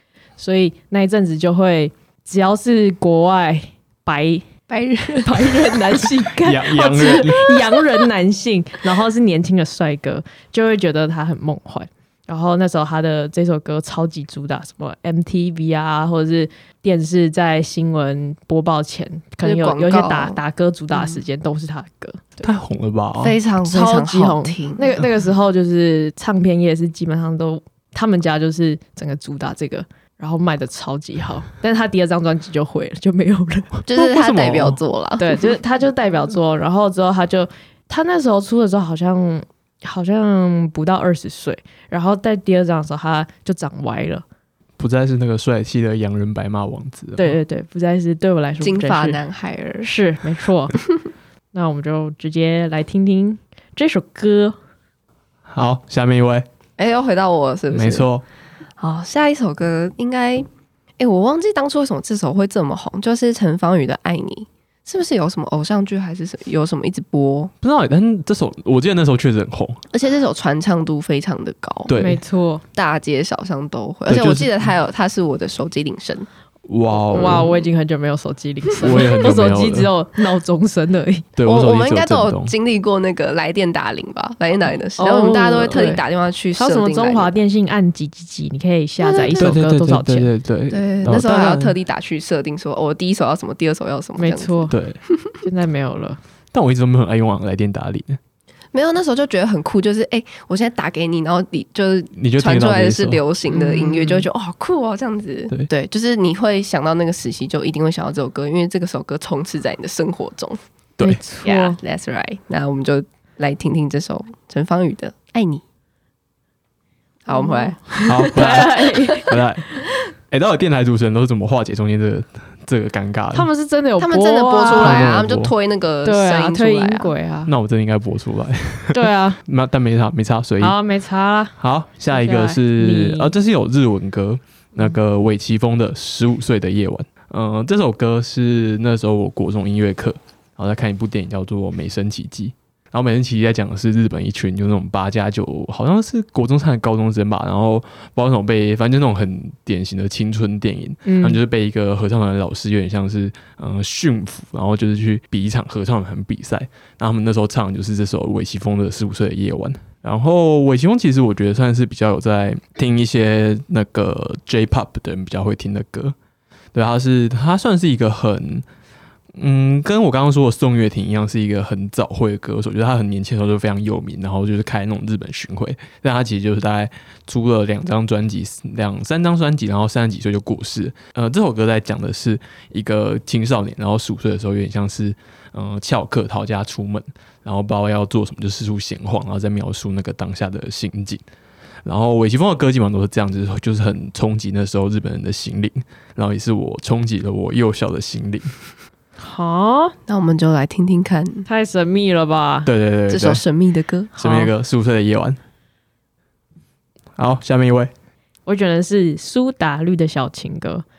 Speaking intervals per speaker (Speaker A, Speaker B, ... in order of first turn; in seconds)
Speaker A: 0.4-4.5, 5.2-22.5, 23.6-33.9, 35.2-44.2, 47.2-49.2, 49.8-50.8, 51.5-54.5, 71.9-72.6, 77.1-81.2, 85.0-90.3, 94.2-94.8, 95.4-96.2, 103.5-104.2, 111.0-111.8, 117.3-119.3, 123.3-125.1, 126.0-127.5, 128.9-129.4, 130.6-131.5, 132.1-133.3, 151.0-151.4, 199.2-199.9, 201.4-202.7, 204.2-204.5, 208.4-210.8
Speaker B: 4.7-6.1, 19.4-20.4, 20.9-21.2, 23.2-25.0, 33.9-35.6, 48.6-49.9, 56.8-58.1, 58.8-60.5, 61.0-67.5, 69.9-71.9, 72.7-76.3, 77.1-77.6, 81.4-87.3, 89.0-89.6, 90.7-95.2, 98.7-110.6, 111.4-115.6, 117.2-119.3, 124.0-127.1, 200.1-201.4, 203.1-204.2
Speaker C: 6.4-7.6, 22.4-23.4, 34.0-34.8, 44.8-47.3, 55.5-56.5, 57.7-58.2, 67.6-69.8, 71.9-72.2, 74.1-74.5, 76.6-77.5, 78.8-79.9, 81.3-82.5, 89.4-91.7, 94.7-95.0, 96.5-98.2, 102.2-103.2, 118.1-119.7, 120.3-123.5, 124.8-125.5, 127.4-130.8, 131.6-166.1, 166.7-168.6, 169.4-191.2, 191.8-198.5, 202.6-203.4, 204.2-205.4, 207.2-207.9